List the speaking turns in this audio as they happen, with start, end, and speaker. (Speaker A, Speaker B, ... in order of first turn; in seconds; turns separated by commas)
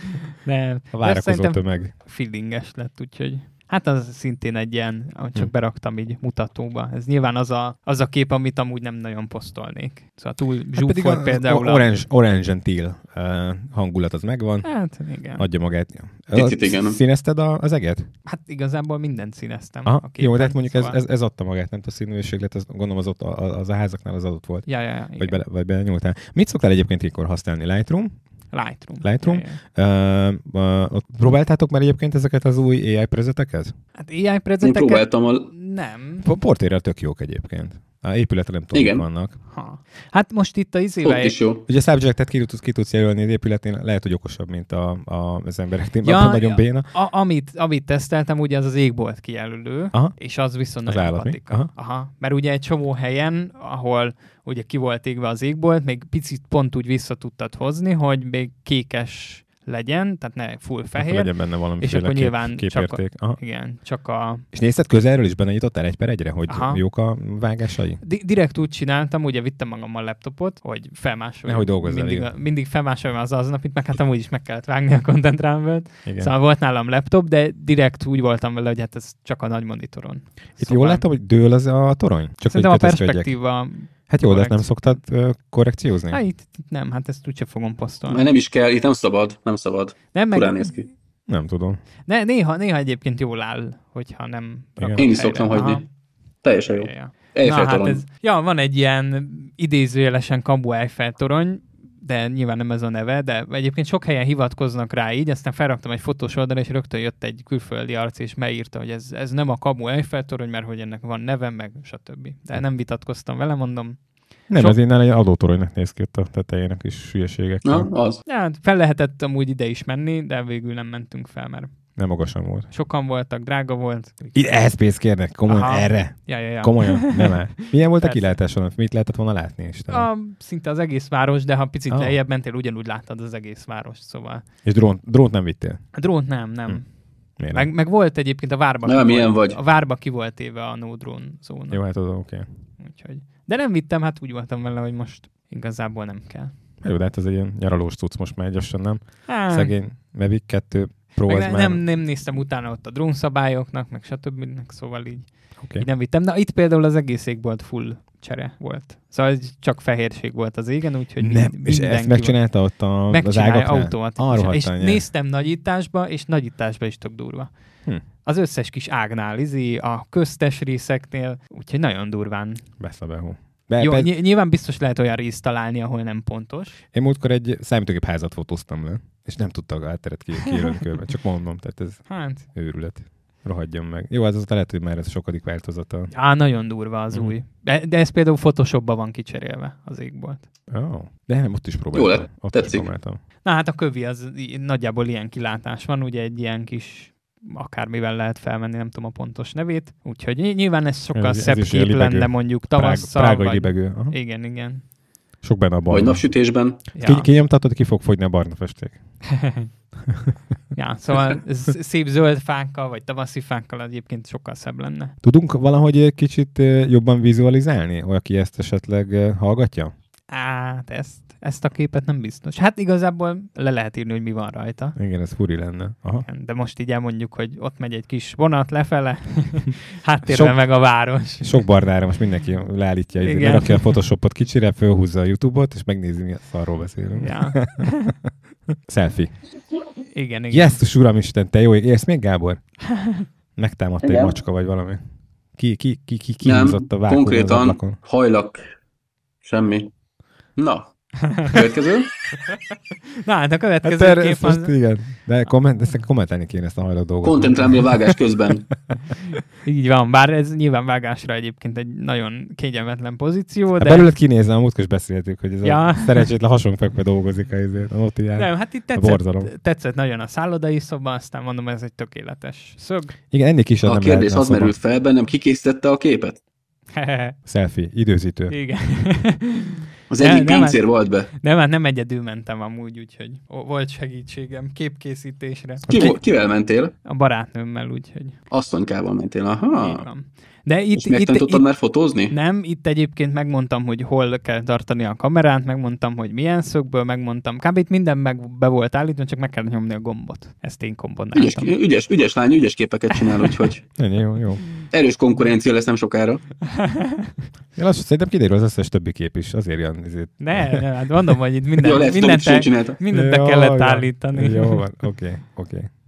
Speaker A: 0.4-11.8, Speaker B: 0.9-1.9, Speaker B: 10.8-14.7, Speaker A: 14.6-15.4, Speaker B: 15.4-18.1, Speaker C: 16.3-17.0, Speaker A: 18.2-21.0, Speaker B: 19.9-24.7, Speaker A: 24.6-25.4, Speaker B: 25.2-28.1, Speaker A: 28.5-29.6, Speaker B: 29.0-33.7, Speaker A: 34.0-36.2, Speaker C: 34.6-35.5, Speaker B: 36.2-39.4, Speaker C: 38.7-39.0, Speaker A: 39.5-41.4, Speaker C: 41.0-41.6, Speaker B: 41.6-46.9, Speaker A: 46.0-64.4, Speaker B: 50.8-51.7, Speaker B: 60.9-63.4, Speaker B: 64.5-68.0, Speaker A: 66.5-66.8, Speaker A: 68.0-81.0, Speaker B: 71.5-72.3, Speaker B: 76.0-76.3, Speaker B: 80.6-83.3, Speaker A: 82.5-84.7, Speaker B: 84.1-86.2, Speaker A: 86.1-88.3, Speaker C: 88.1-90.8, Speaker A: 90.1-90.8, Speaker B: 91.3-91.8, Speaker A: 92.1-95.8, Speaker B: 94.8-95.1, Speaker C: 95.0-95.8, Speaker C: 96.4-98.0, Speaker A: 96.7-114.0, Speaker B: 114.5-117.9, Speaker C: 117.6-118.2, Speaker A: 118.2-121.7, Speaker B: 122.0-122.7, Speaker A: 122.7-124.4, Speaker B: 124.3-130.1, Speaker A: 125.5-128.3, Speaker A: 129.9-134.4, Speaker B: 131.9-132.1, Speaker B: 134.6-135.8, Speaker A: 135.9-136.8, Speaker B: 137.4-137.7, Speaker A: 137.5-141.8, Speaker C: 138.8-139.6, Speaker B: 141.7-142.4, Speaker A: 142.8-146.5, Speaker B: 146.8-151.8, Speaker A: 149.3-149.7, Speaker A: 151.3-162.4, Speaker B: 155.6-155.8, Speaker B: 161.2-165.0, Speaker A: 163.1-167.5, Speaker A: 168.2-172.6, Speaker B: 172.8-174.1, Speaker A: 173.8-176.8, Speaker B: 176.9-186.1, Speaker A: 182.1-182.4, Speaker A: 186.1-190.4, Speaker B: 190.7-193.2, Speaker C: 191.9-192.9, Speaker A: 193.4-204.8, Speaker B: 201.1-204.1, Speaker B: 205.4-206.2, Speaker C: 205.9-206.8, Speaker A: 206.9-207.3, Speaker B: 207.0-209.0, Speaker A: 209.3-209.7, Speaker A: 210.7-215.1, Speaker B: 215.2-219.9, Speaker A: 220.3-224.9, Speaker B: 224.9-226.3, Speaker A: 226.3-231.6, Speaker B: 230.3-230.6, Speaker B: 231.4-238.3, Speaker A: 233.2-234.0, Speaker A: 237.2-238.1, Speaker B: 238.8-239.3, Speaker A: 240.1-240.8, Speaker B: 240.5-242.6, Speaker B: 243.6-245.0, Speaker C: 244.0-244.3, Speaker B: 245.6-248.0, Speaker C: 246.4-248.6, Speaker C: 249.4-249.9, Speaker C: 250.6-250.9, Speaker A: 251.3-251.6, Speaker C: 251.4-252.1, Speaker A: 253.1-254.7, Speaker B: 253.8-258.0, Speaker C: 257.2-258.7, Speaker A: 259.5-264.1, Speaker B: 263.8-269.5, Speaker A: 265.6-266.3, Speaker A: 268.4-273.1, Speaker B: 273.3-274.7, Speaker C: 273.8-276.4, Speaker A: 276.9-277.4, Speaker B: 277.4-278.5, Speaker A: 278.5-285.9, Speaker C: 280.1-281.3, Speaker B: 285.9-286.2, Speaker C: 285.9-286.9, Speaker A: 287.0-288.4, Speaker C: 288.5-290.1, Speaker A: 289.7-291.7, Speaker C: 290.9-292.3, Speaker A: 292.3-301.7, Speaker C: 301.3-303.8, Speaker A: 303.1-303.6, Speaker B: 304.0-304.6, Speaker C: 304.9-306.4, Speaker A: 306.7-307.3, Speaker B: 307.7-310.8, Speaker A: 310.4-314.8, Speaker C: 311.8-313.0, Speaker B: 313.1-315.9